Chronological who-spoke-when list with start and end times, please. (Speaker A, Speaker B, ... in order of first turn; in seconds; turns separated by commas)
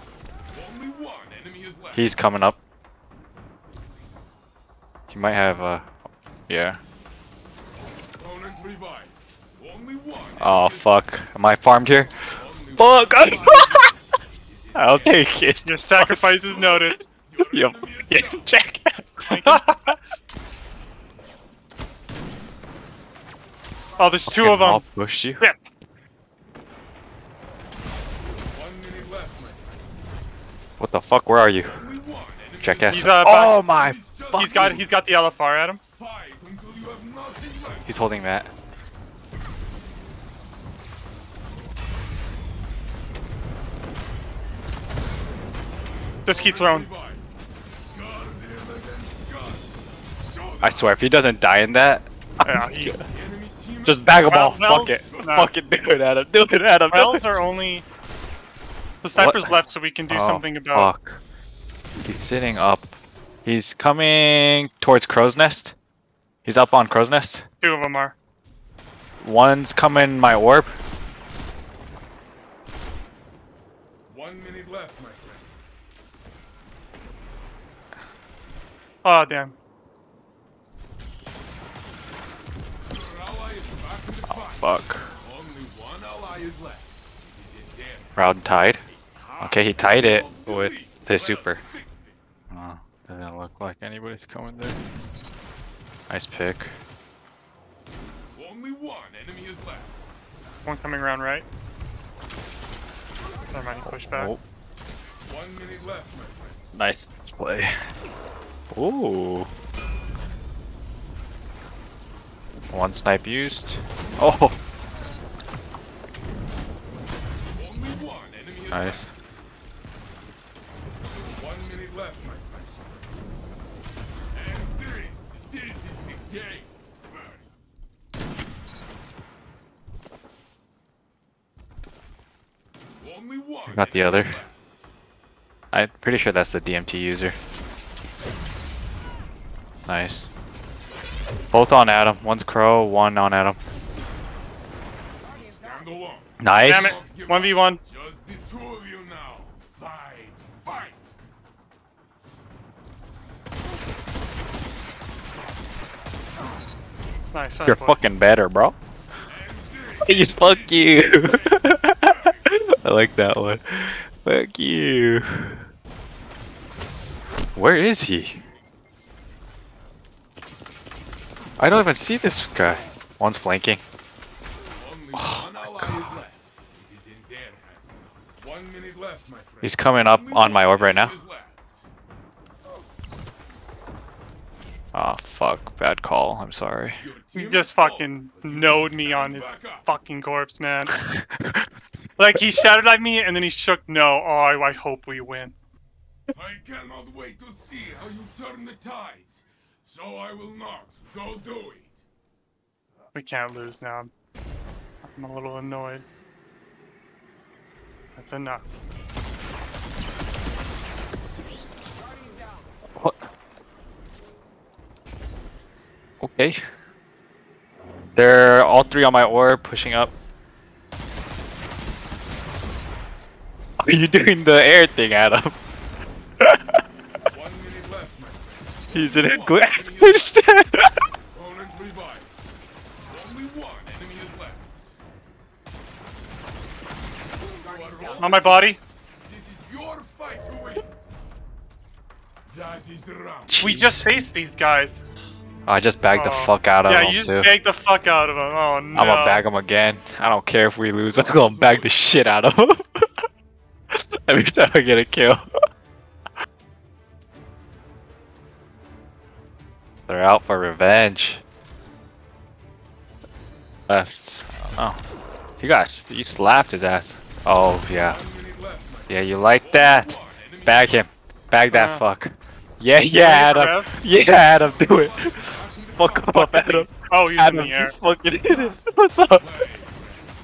Speaker A: 0.5-2.1, Speaker B: 1.9-2.6, Speaker B: 5.1-5.9, Speaker B: 6.5-6.8, Speaker A: 8.2-11.1, Speaker B: 10.4-13.9, Speaker A: 12.2-13.9, Speaker A: 14.5-15.3, Speaker B: 14.7-16.9, Speaker C: 15.7-17.0, Speaker A: 17.2-18.5, Speaker B: 17.5-19.6, Speaker C: 19.3-20.0, Speaker C: 24.0-24.8, Speaker B: 24.3-25.4, Speaker A: 28.3-29.8, Speaker B: 30.8-31.8, Speaker A: 31.6-34.9, Speaker B: 32.6-34.8, Speaker C: 32.9-33.5, Speaker C: 34.4-35.8, Speaker A: 36.0-38.0, Speaker B: 37.9-38.5, Speaker A: 46.2-47.2, Speaker C: 46.2-46.9, Speaker A: 47.9-49.7, Speaker A: 50.3-51.0, Speaker B: 50.6-53.0, Speaker C: 52.4-53.0, Speaker A: 53.1-55.4, Speaker B: 53.8-57.2, Speaker C: 54.3-55.5, Speaker C: 56.9-57.8, Speaker C: 59.0-60.9, Speaker B: 59.1-59.6, Speaker B: 60.1-61.2, Speaker B: 62.0-62.9, Speaker B: 63.4-65.7, Speaker B: 66.5-67.4, Speaker C: 67.6-68.2, Speaker B: 69.2-70.7, Speaker A: 74.1-75.5, Speaker C: 79.0-79.5, Speaker A: 82.9-88.2, Speaker B: 84.3-85.1, Speaker B: 88.2-88.8, Speaker A: 88.9-92.1, Speaker B: 89.4-91.6, Speaker B: 92.5-94.8, Speaker B: 96.1-96.7, Speaker A: 98.3-99.9, Speaker C: 100.6-101.5, Speaker C: 103.5-104.3, Speaker B: 104.1-104.4, Speaker A: 105.2-106.6, Speaker B: 106.7-107.7, Speaker B: 108.7-109.5, Speaker B: 112.7-114.5, Speaker A: 117.5-119.1, Speaker B: 118.7-119.1, Speaker A: 121.1-122.9, Speaker A: 124.3-127.4, Speaker A: 133.0-134.7, Speaker B: 133.7-134.4, Speaker B: 135.7-137.3, Speaker B: 139.9-140.3, Speaker B: 141.5-143.6, Speaker A: 145.3-151.2, Speaker B: 146.4-147.0, Speaker C: 146.6-147.8, Speaker C: 157.3-158.0, Speaker B: 157.6-158.8, Speaker A: 159.2-162.5, Speaker B: 160.0-165.6, Speaker B: 167.5-168.4, Speaker B: 171.6-173.8, Speaker A: 174.8-181.8, Speaker B: 175.1-175.9, Speaker B: 179.6-181.1, Speaker B: 184.9-187.0, Speaker A: 187.0-189.8, Speaker C: 187.3-191.0, Speaker B: 191.1-191.6, Speaker C: 192.2-195.5, Speaker A: 196.3-202.0, Speaker C: 203.1-204.1, Speaker C: 205.0-206.0, Speaker C: 208.2-208.6, Speaker B: 213.0-213.2, Speaker B: 216.2-216.6, Speaker B: 218.1-220.1, Speaker B: 223.8-225.6, Speaker B: 226.4-226.8, Speaker A: 227.2-230.4, Speaker B: 228.9-231.0, Speaker A: 231.3-232.3, Speaker A: 233.1-234.8, Speaker A: 237.5-238.7, Speaker C: 238.2-238.8, Speaker A: 239.2-240.8, Speaker A: 242.5-243.7, Speaker B: 243.5-244.0, Speaker C: 243.6-245.0, Speaker B: 245.7-247.5, Speaker C: 246.1-249.4, Speaker B: 248.9-253.2, Speaker A: 251.1-252.3, Speaker B: 253.9-255.4, Speaker B: 260.1-261.4, Speaker B: 263.9-265.0, Speaker B: 265.6-268.2, Speaker A: 267.9-271.0, Speaker B: 269.1-279.5, Speaker C: 271.7-272.0, Speaker C: 273.1-273.9, Speaker A: 274.3-276.7, Speaker C: 276.5-278.0, Speaker A: 278.4-280.3